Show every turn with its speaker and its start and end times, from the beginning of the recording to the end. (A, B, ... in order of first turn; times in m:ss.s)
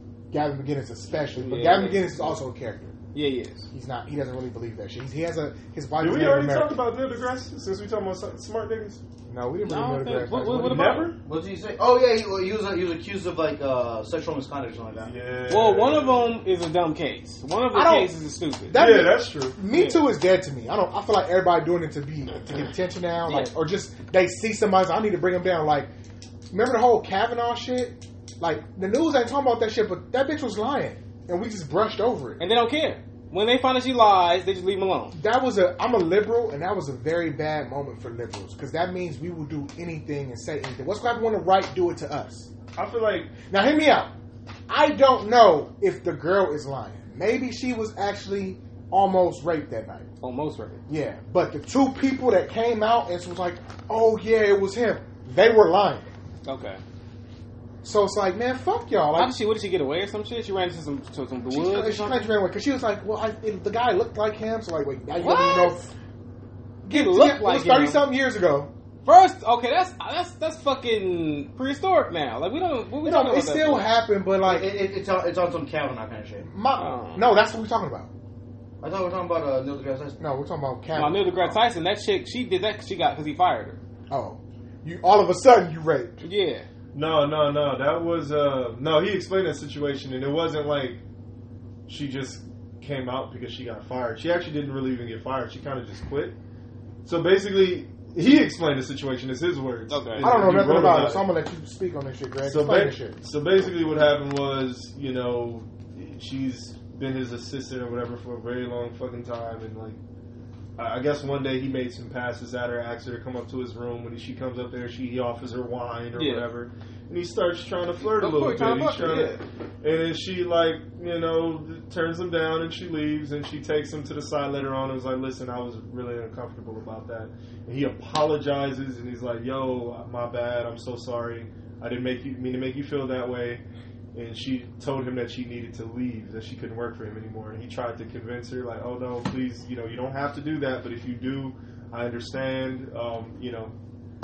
0:00.3-0:03.0 A
0:01.4-0:02.4 B
0:03.1-0:03.7 B
0:03.7-0:06.8 A
0:06.0-0:09.0 C
0:09.3-0:10.9 A
0:09.7-0:11.1 B
0:10.5-0:11.2 C
0:11.2-0:15.1 D
0:15.1-0:16.4 C
0:15.5-0:18.8 B
0:17.7-0:18.1 A
0:18.7-0:25.9 A
0:18.7-0:19.6 C
0:19.7-0:20.0 B
0:23.3-0:23.5 B
0:26.5-0:32.4 A
0:32.4-0:35.2 B
0:35.1-0:42.5 A
0:42.8-0:43.4 C
0:43.5-0:44.1 A
0:44.7-0:50.1 A
0:50.2-0:50.8 B
0:50.9-0:56.1 A
0:56.4-0:56.8 B
0:57.8-0:59.4 A
0:59.2-1:02.3 B
1:01.5-1:05.9 A
1:05.2-1:05.8 B
1:06.8-1:08.7 A
1:06.9-1:08.0 B
1:09.0-1:13.9 B
1:13.0-1:14.8 A
1:14.4-1:16.5 D
1:16.5-1:18.1 A
1:16.8-1:17.3 B
1:18.8-1:20.2 D
1:20.2-1:21.6 A
1:21.0-1:23.8 B
1:24.1-1:26.2 A
1:26.2-1:26.7 B
1:26.9-1:31.0 C
1:31.9-1:36.4 C
1:37.0-1:41.3 C
1:39.9-1:40.4 B
1:40.2-1:43.2 A
1:42.4-1:50.0 C
1:50.8-2:13.6 C
1:56.2-1:56.4 B
1:58.0-1:59.4 B
2:14.1-2:23.7 C